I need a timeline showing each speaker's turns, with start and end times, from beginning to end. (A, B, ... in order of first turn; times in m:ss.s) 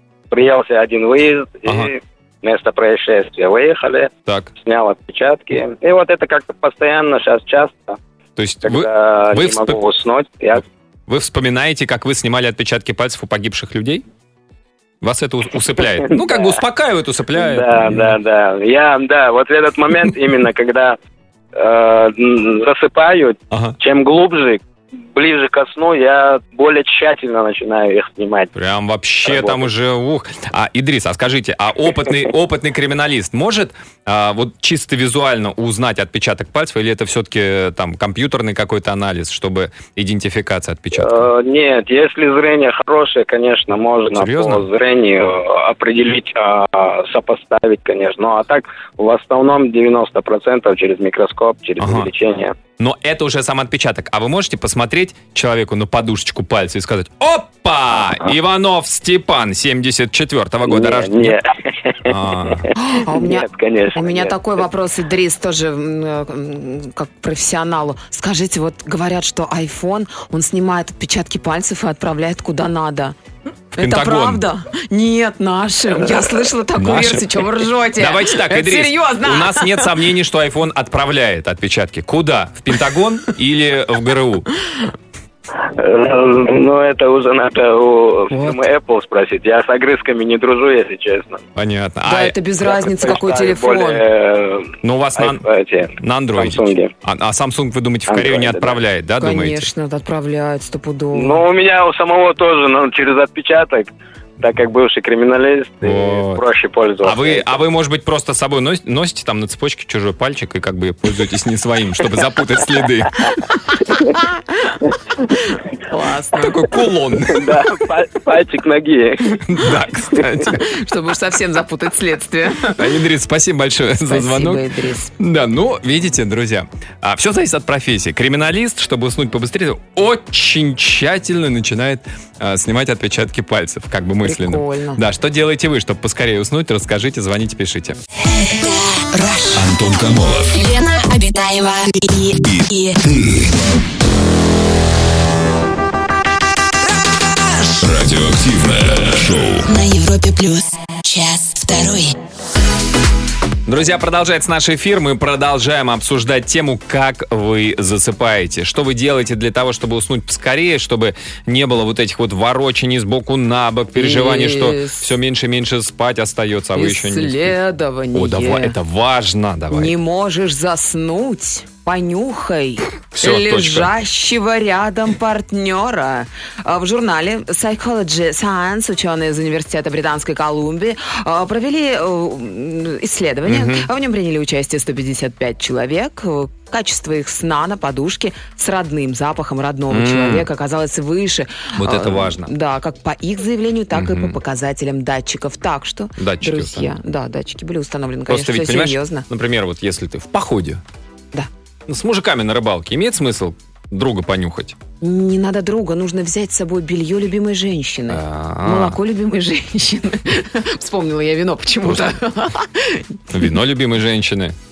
0:00.3-0:08.0 A
0:01.6-0:01.9 B
0:04.3-0:04.5 B
0:08.4-0:09.8 B
0:08.6-0:10.6 A
0:11.1-0:14.0 B
0:15.0-0:18.1 B
0:16.1-0:16.6 A
0:17.3-0:21.0 A
0:21.5-0:24.6 A
0:23.5-0:23.8 B
0:25.1-0:28.5 A
0:28.5-0:41.3 B
0:29.2-0:29.6 A
0:41.0-0:52.6 A
0:44.1-0:44.7 B
0:51.8-0:52.1 B
0:52.8-1:01.4 B
1:00.6-1:04.6 A
1:02.0-1:02.7 B
1:02.8-1:13.2 C
1:13.7-1:20.0 C
1:13.8-1:14.5 B
1:16.7-1:24.5 B
1:25.5-1:31.4 A
1:28.3-1:28.6 C
1:31.6-1:32.4 B
1:32.0-1:34.0 C
1:32.6-1:36.9 A
1:34.8-1:35.4 B
1:36.0-1:39.7 B
1:38.1-1:38.8 A
1:39.2-1:41.4 C
1:41.1-1:47.5 A
1:45.8-1:46.4 B
1:47.0-1:53.3 B
1:55.6-1:56.6 C
1:56.4-1:57.7 B
1:57.3-1:59.4 A
1:59.4-2:00.7 B
2:00.4-2:02.9 C
2:02.8-2:04.6 B
2:04.0-2:05.1 C
2:05.2-2:18.0 B
2:14.2-2:15.0 C
2:18.3-2:19.8 D
2:19.5-2:20.6 E
2:20.5-2:23.0 D
2:22.4-2:23.5 E
2:27.6-2:29.7 E
2:29.6-2:32.1 D
2:33.6-2:47.6 B
2:44.0-2:45.1 C
2:46.7-2:48.8 C
2:48.1-2:50.0 B
2:49.7-3:19.2 C
2:53.1-2:53.9 B
3:03.4-3:03.9 B
3:09.9-3:10.5 B
3:11.8-3:12.5 B
3:13.9-3:14.4 B
3:16.2-3:16.9 B
3:18.3-3:20.8 B
3:21.9-3:24.8 B
3:25.0-3:33.2 C
3:28.1-3:29.0 B
3:31.8-3:32.1 B
3:33.3-3:34.6 B